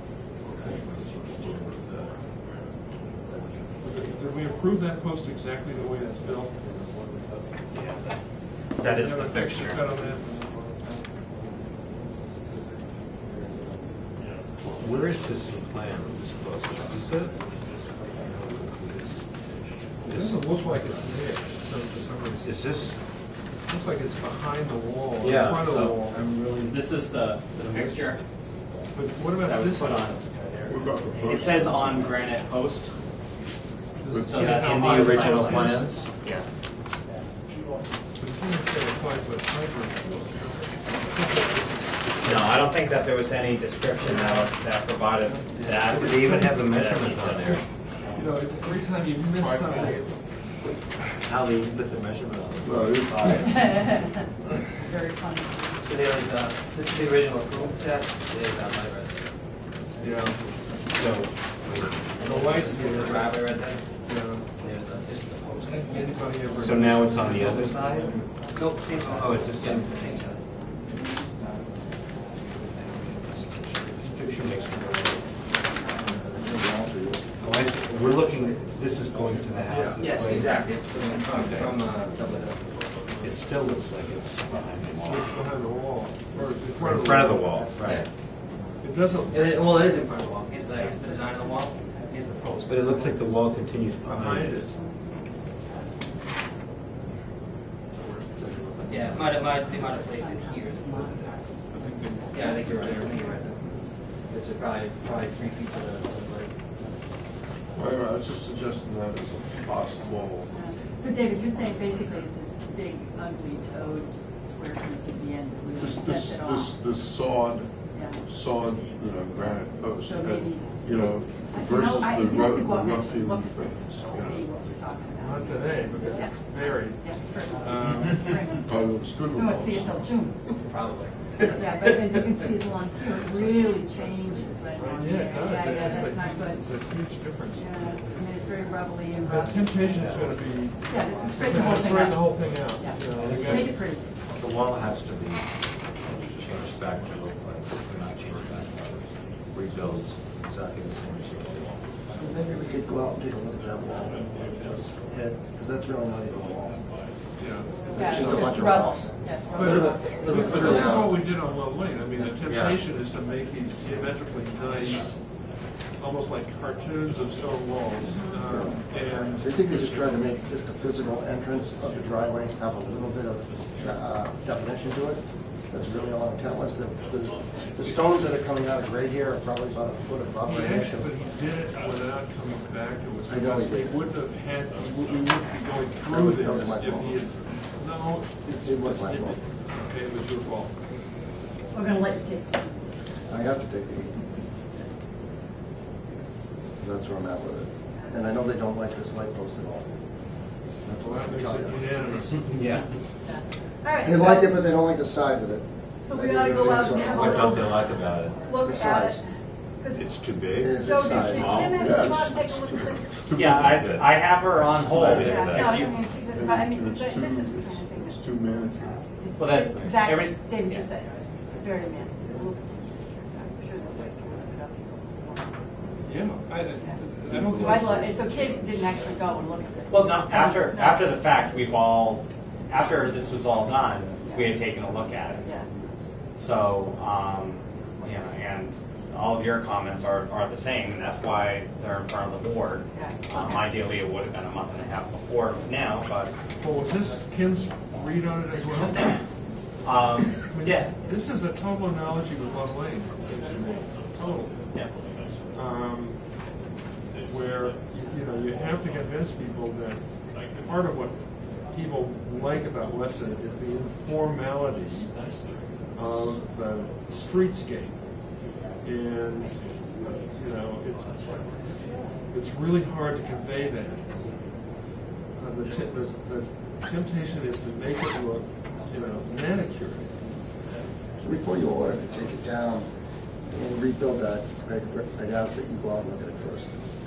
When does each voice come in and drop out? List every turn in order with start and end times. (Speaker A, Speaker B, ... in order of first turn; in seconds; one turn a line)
Speaker A: 0.5-2.2
Speaker B: 3.8-6.5
Speaker C: 7.7-8.1
Speaker C: 8.8-9.9
Speaker B: 8.8-10.4
Speaker D: 14.6-17.4
Speaker D: 18.1-19.1
Speaker D: 20.0-21.1
Speaker B: 20.0-22.6
Speaker D: 22.4-23.0
Speaker B: 23.7-26.2
Speaker D: 25.2-26.6
Speaker C: 26.7-28.2
Speaker B: 28.9-30.1
Speaker C: 29.4-32.9
Speaker A: 30.6-32.2
Speaker E: 31.3-31.8
Speaker B: 34.0-35.9
Speaker A: 34.1-34.8
Speaker C: 34.3-35.6
Speaker D: 34.7-36.0
Speaker E: 35.0-35.7
Speaker B: 38.2-42.6
Speaker C: 42.3-47.5
Speaker B: 44.1-44.4
Speaker D: 45.6-47.7
Speaker E: 46.0-46.6
Speaker B: 48.1-50.2
Speaker D: 51.2-53.9
Speaker A: 52.6-53.7
Speaker E: 53.7-54.1
Speaker E: 54.8-55.7
Speaker F: 55.8-59.4
Speaker B: 60.0-60.4
Speaker D: 60.9-62.4
Speaker B: 62.2-63.5
Speaker F: 62.3-63.8
Speaker B: 64.0-64.5
Speaker F: 64.6-66.2
Speaker B: 65.6-68.2
Speaker D: 66.6-68.1
Speaker F: 67.2-70.4
Speaker D: 69.1-70.0
Speaker D: 73.3-75.2
Speaker G: 76.1-77.2
Speaker D: 77.4-80.5
Speaker B: 79.7-80.0
Speaker F: 80.0-82.6
Speaker D: 81.3-81.7
Speaker D: 83.2-85.3
Speaker B: 85.0-87.6
Speaker D: 86.7-88.0
Speaker F: 87.8-88.1
Speaker B: 88.8-89.8
Speaker F: 89.3-93.1
Speaker D: 92.7-94.7
Speaker B: 94.1-94.7
Speaker F: 98.9-101.4
Speaker B: 101.7-103.2
Speaker F: 102.3-103.7
Speaker F: 104.3-106.6
Speaker A: 107.7-110.5
Speaker E: 110.5-116.7
Speaker A: 115.7-124.5
Speaker E: 117.9-118.2
Speaker E: 120.0-126.3
Speaker B: 125.2-128.5
Speaker E: 127.0-128.6
Speaker A: 128.6-130.1
Speaker E: 129.3-130.3
Speaker F: 130.6-132.2
Speaker E: 131.5-136.6
Speaker B: 134.8-138.1
Speaker E: 137.6-140.0
Speaker B: 139.2-143.7
Speaker D: 139.8-140.4
Speaker E: 140.9-144.1
Speaker D: 143.1-145.5
Speaker D: 146.0-151.8
Speaker G: 152.1-156.8
Speaker B: 157.4-158.6
Speaker G: 157.9-159.1
Speaker E: 157.9-159.8
Speaker B: 159.5-165.2
Speaker F: 159.5-161.1
Speaker G: 160.4-161.1
Speaker D: 162.4-162.7
Speaker B: 166.0-169.5
Speaker E: 168.0-168.4
Speaker G: 168.4-168.8
Speaker G: 169.4-181.1
Speaker B: 180.4-190.7
Speaker G: 183.3-184.0
Speaker G: 186.1-187.2
Speaker G: 188.4-189.4
Speaker E: 191.7-192.7
Speaker G: 193.3-194.1
Speaker G: 196.8-200.0
Speaker G: 200.8-201.9
Speaker B: 201.0-202.9
Speaker D: 202.5-202.9
Speaker E: 203.3-204.5
Speaker G: 204.0-207.7
Speaker E: 206.1-209.2
Speaker D: 207.1-208.4
Speaker G: 208.5-209.2
Speaker D: 209.9-212.1
Speaker G: 210.6-212.2
Speaker E: 210.8-213.4
Speaker A: 211.7-213.9
Speaker D: 213.3-215.8
Speaker C: 213.4-216.0
Speaker A: 215.0-215.4
Speaker E: 215.2-218.2
Speaker A: 216.2-219.0
Speaker E: 219.2-225.6
Speaker C: 219.4-220.8
Speaker B: 226.0-228.2
Speaker A: 227.2-228.6
Speaker E: 227.4-231.7
Speaker C: 229.9-235.4
Speaker E: 234.2-234.7
Speaker C: 236.4-246.4
Speaker E: 242.9-243.9
Speaker B: 246.6-249.2
Speaker C: 249.8-250.9
Speaker B: 250.5-254.5
Speaker B: 255.5-256.2
Speaker B: 257.2-260.0
Speaker B: 260.6-261.2
Speaker B: 261.7-265.1
Speaker B: 265.9-268.0
Speaker B: 268.8-271.5
Speaker B: 272.3-274.1
Speaker B: 275.3-280.3
Speaker G: 281.2-282.9
Speaker G: 283.5-286.7